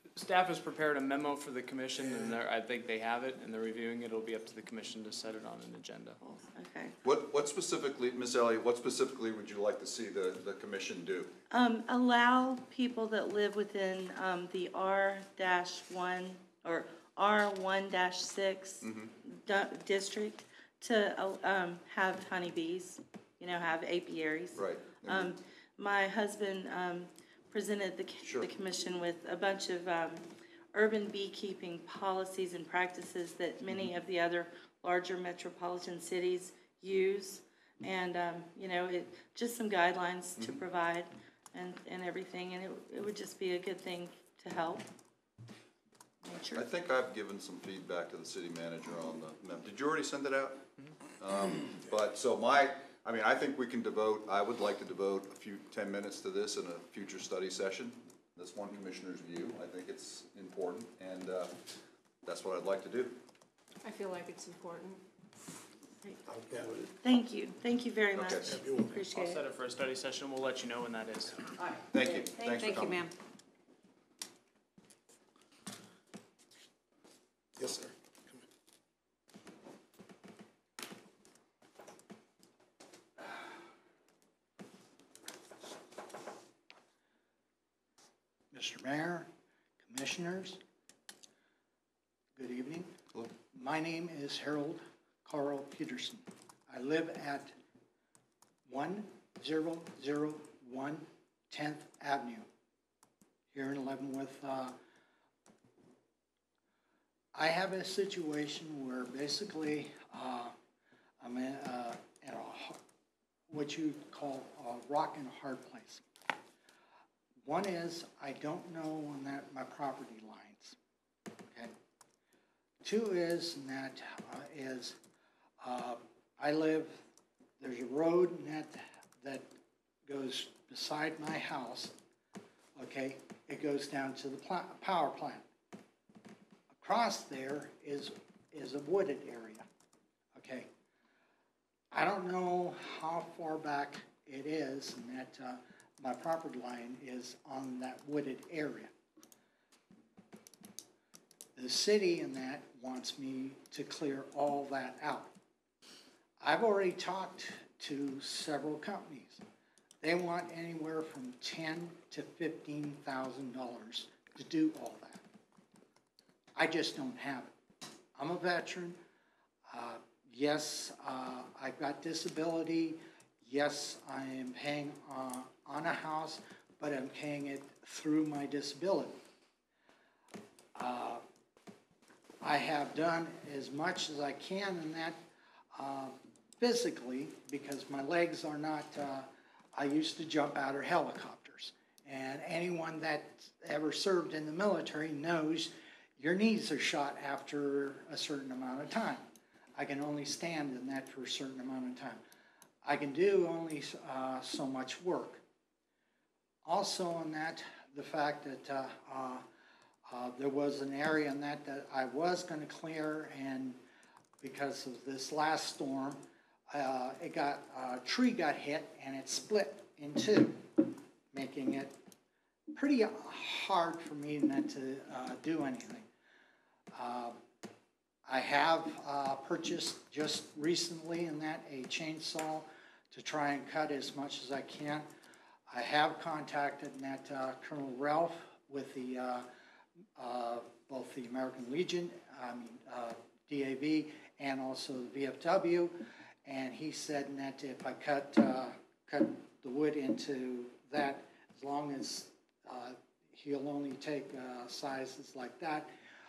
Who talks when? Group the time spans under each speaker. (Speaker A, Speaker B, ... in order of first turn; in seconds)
Speaker A: 0.1-6.2, 68.9-71.5
Speaker B: 1.9-2.4, 66.3-66.9, 68.4-69.0, 77.6-78.4
Speaker C: 6.2-7.0, 11.5-44.9, 67.0-69.4
Speaker D: 7.0-11.3, 18.8-19.1, 24.5-25.3, 28.2-28.5, 46.5-61.5, 62.2-63.1, 68.1-68.6, 71.9-73.0
Speaker E: 63.8-65.0, 72.1-73.1
Speaker F: 88.5-89.3, 89.8-90.6, 92.4-92.9, 93.5-97.5, 98.7-102.5, 103.5-104.7, 107.3-110.5, 111.2-112.8, 113.5-116.0, 117.4-120.8, 122.8-125.0, 125.6-127.0, 127.6-129.4, 130.1-131.9, 132.8-135.4, 136.8-139.7, 140.3-140.7, 141.9-148.9, 151.6-155.3, 156.4-159.4, 160.0-165.2, 166.6-167.5, 168.2-169.0, 169.7-179.2, 180.7-181.2, 182.4-185.2, 185.7-202.2, 202.8-205.4, 206.6-209.4, 210.1-213.8, 214.4-216.2, 216.7-220.8, 221.3-221.9, 222.7-226.1, 226.9-227.4, 228.3-235.1, 235.7-239.4, 240.2-255.9